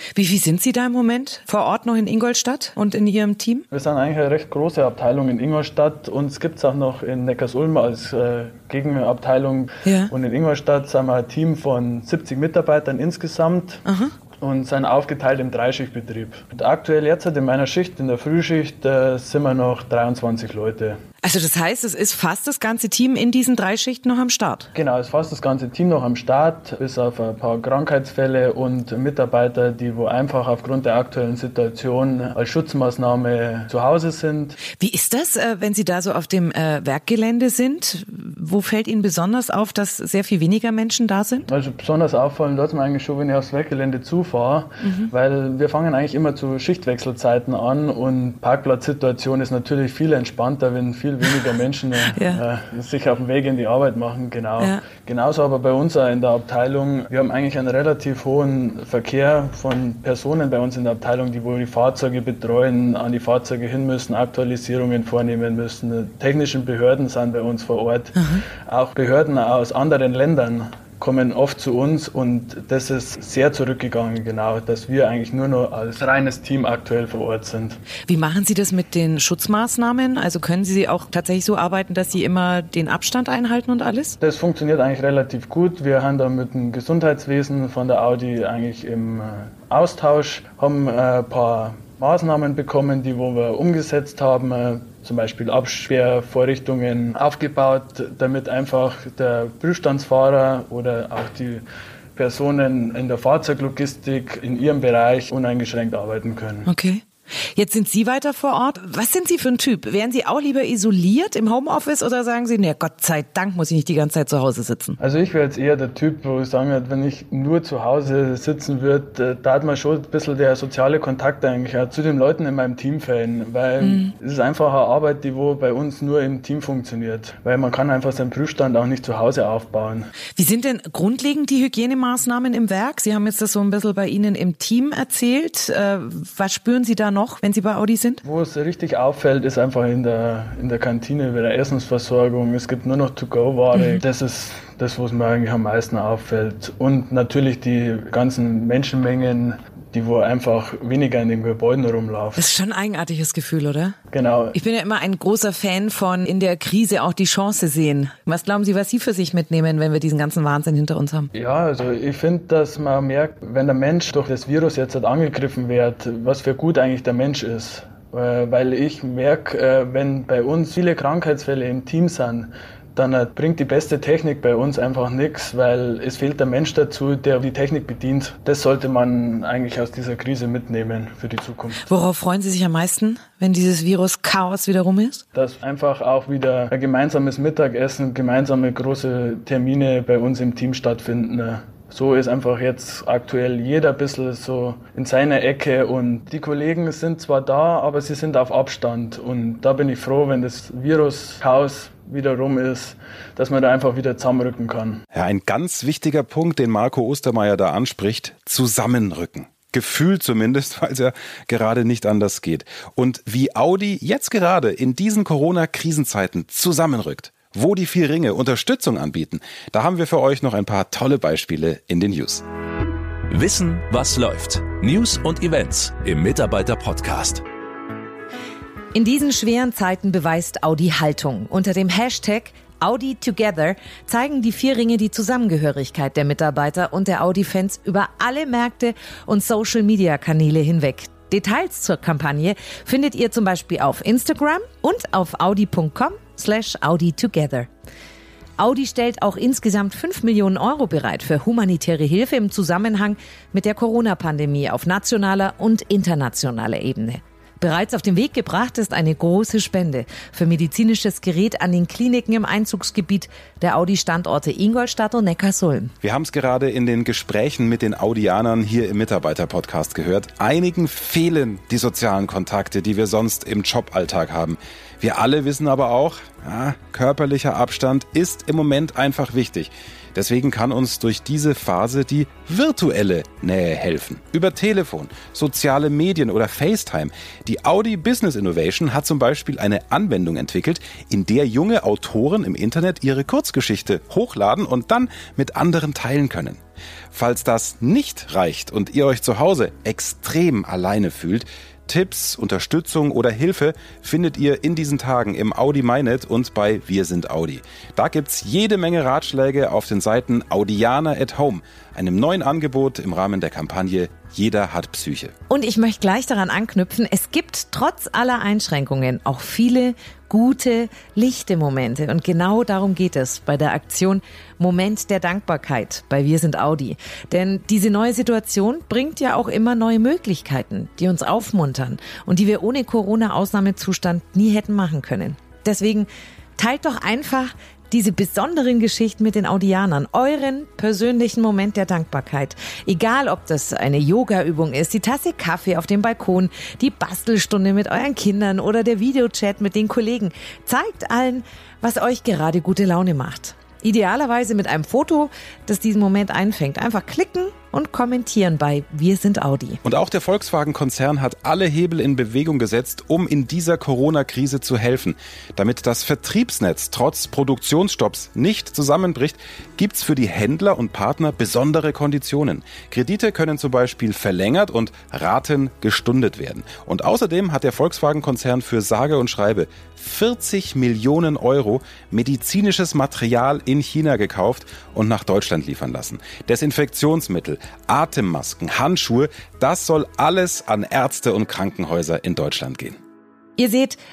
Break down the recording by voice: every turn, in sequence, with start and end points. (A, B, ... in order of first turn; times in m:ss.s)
0:00.2-0:03.6 A
0:03.7-0:13.8 B
0:09.8-0:10.1 A
0:13.9-0:14.1 A
0:14.4-0:21.0 B
0:21.2-0:24.7 A
0:24.7-0:34.6 B
0:34.8-0:41.5 A
0:41.5-1:17.8 B
0:44.8-0:45.1 A
0:52.1-0:52.4 A
1:08.2-1:08.4 A
1:18.1-1:24.2 A
1:24.2-1:46.7 B
1:46.7-1:55.0 A
1:55.0-2:10.1 B
2:03.8-2:04.1 A
2:10.4-2:18.2 A
2:18.2-2:32.5 B
2:23.7-2:24.0 A
2:32.4-2:34.0 A
2:34.1-2:34.6 B
2:34.5-2:41.3 A
2:41.3-3:01.8 B
3:01.8-3:05.2 A
3:05.3-3:25.0 B
3:25.1-3:42.4 C
3:43.3-3:47.4 D
3:48.9-4:07.7 A
4:08.6-4:25.9 A
4:26.0-4:56.6 C
4:57.1-5:15.3 C
5:15.5-5:59.8 A
5:59.8-6:33.0 C
6:33.6-6:34.0 A